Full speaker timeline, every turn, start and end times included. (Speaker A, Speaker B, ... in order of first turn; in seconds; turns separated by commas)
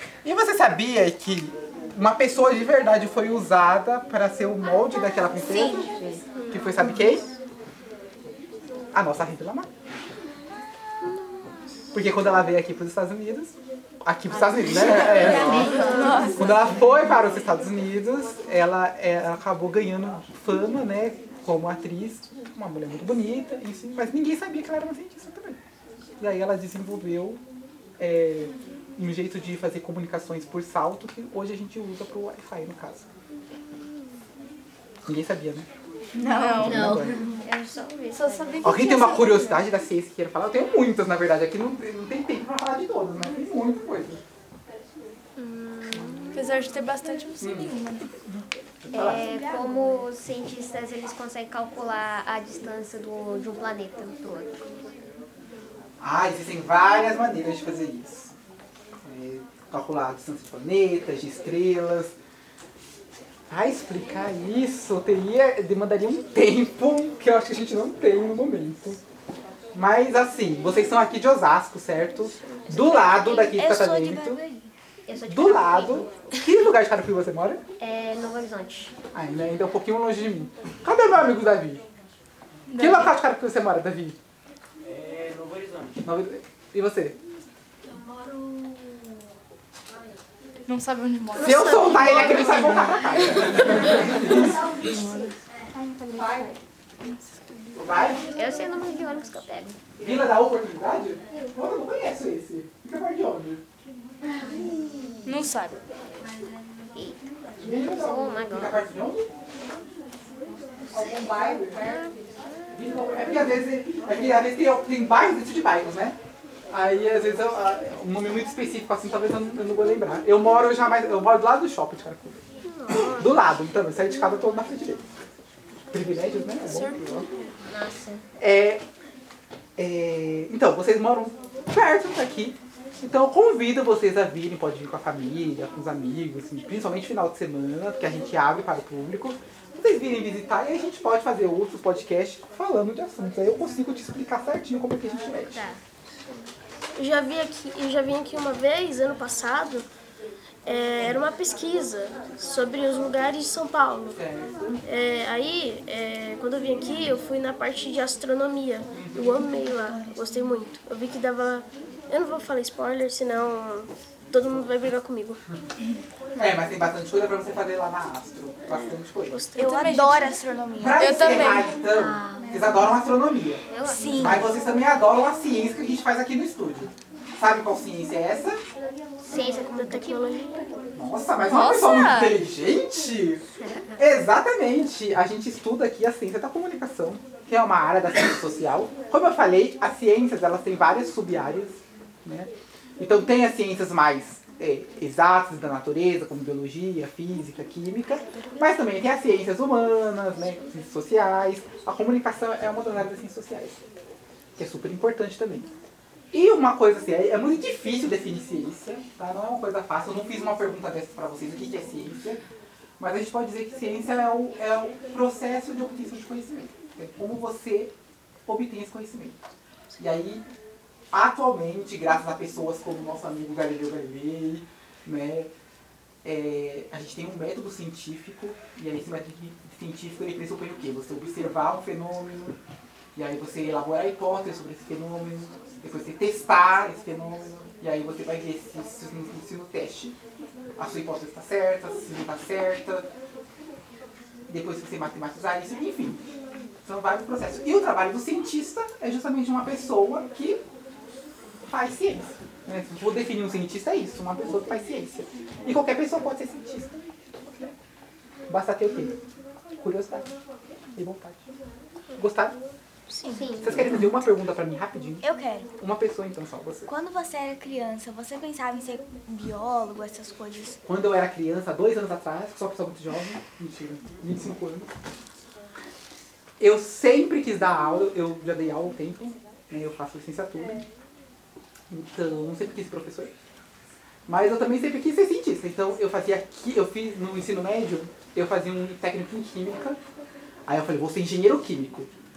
Speaker A: 0.2-5.9, Speaker B: 5.5-6.2, Speaker C: 6.2-6.9, Speaker A: 6.5-7.3, Speaker A: 8.9-9.7, Speaker C: 11.0-11.4, Speaker A: 11.9-25.6, Speaker D: 14.5-16.6, Speaker E: 15.0-16.6, Speaker C: 15.1-16.3, Speaker A: 26.2-27.4, Speaker A: 28.0-33.1, Speaker A: 35.0-35.7, Speaker D: 36.1-37.2, Speaker E: 36.2-37.0, Speaker A: 36.5-37.3, Speaker B: 36.6-38.8, Speaker E: 38.1-39.6, Speaker A: 38.6-44.2, Speaker C: 45.4-46.7, Speaker E: 46.3-48.1, Speaker A: 47.4-49.3, Speaker B: 48.9-54.6, Speaker D: 48.9-50.0, Speaker A: 56.0-58.3, Speaker A: 59.0-62.1, Speaker A: 63.5-69.0, Speaker A: 69.7-74.4, Speaker D: 72.7-74.7, Speaker B: 75.0-76.2, Speaker A: 75.3-77.6, Speaker B: 77.8-78.9, Speaker A: 79.1-81.8, Speaker E: 82.7-83.1, Speaker A: 82.7-84.2, Speaker A: 86.0-87.2, Speaker E: 90.7-92.5, Speaker C: 91.3-93.2, Speaker A: 91.4-94.6, Speaker E: 93.5-95.3, Speaker D: 94.7-95.1, Speaker D: 95.7-96.5, Speaker E: 96.2-96.5, Speaker A: 97.7-98.3, Speaker B: 98.3-99.8, Speaker A: 100.0-103.6, Speaker B: 104.3-105.3, Speaker E: 105.2-105.8, Speaker B: 106.9-107.2, Speaker A: 107.6-109.3, Speaker B: 107.8-108.8, Speaker A: 110.9-111.9, Speaker B: 111.8-112.7, Speaker A: 112.7-116.2, Speaker A: 116.7-125.1, Speaker C: 122.6-123.4, Speaker A: 125.9-127.2, Speaker C: 126.3-127.7, Speaker B: 127.7-128.2, Speaker A: 128.4-128.8, Speaker A: 129.8-145.6, Speaker B: 145.5-145.8, Speaker C: 146.9-149.9, Speaker C: 150.7-154.2, Speaker A: 154.2-154.8, Speaker C: 154.8-165.4, Speaker A: 158.9-159.5, Speaker A: 166.3-169.4, Speaker C: 168.7-170.3, Speaker D: 169.6-171.1, Speaker E: 169.6-170.3, Speaker A: 170.8-173.6, Speaker E: 170.9-171.7, Speaker B: 171.8-172.7, Speaker B: 173.7-174.3, Speaker D: 173.9-174.5, Speaker A: 174.2-178.6, Speaker B: 179.2-180.4, Speaker C: 179.3-180.8, Speaker A: 180.9-183.4, Speaker E: 181.4-182.4, Speaker B: 183.6-184.0, Speaker A: 184.0-203.8, Speaker A: 204.6-205.7, Speaker A: 206.3-212.4, Speaker A: 213.0-217.9, Speaker A: 218.4-219.4, Speaker A: 220.0-220.4, Speaker A: 221.1-225.5, Speaker A: 226.2-232.6, Speaker A: 233.1-240.2, Speaker A: 240.8-243.1, Speaker A: 244.5-246.2, Speaker A: 246.8-250.7, Speaker A: 251.6-257.7, Speaker A: 258.5-259.2, Speaker A: 259.8-260.3, Speaker A: 260.9-261.4, Speaker A: 262.2-262.6, Speaker C: 263.1-263.4, Speaker D: 263.2-263.9, Speaker B: 263.3-263.9, Speaker A: 263.6-265.2, Speaker D: 265.2-265.7, Speaker A: 265.8-266.9, Speaker D: 266.9-270.8, Speaker A: 270.9-274.9, Speaker A: 276.6-280.9, Speaker A: 281.9-283.3, Speaker A: 284.3-290.0, Speaker A: 290.6-292.1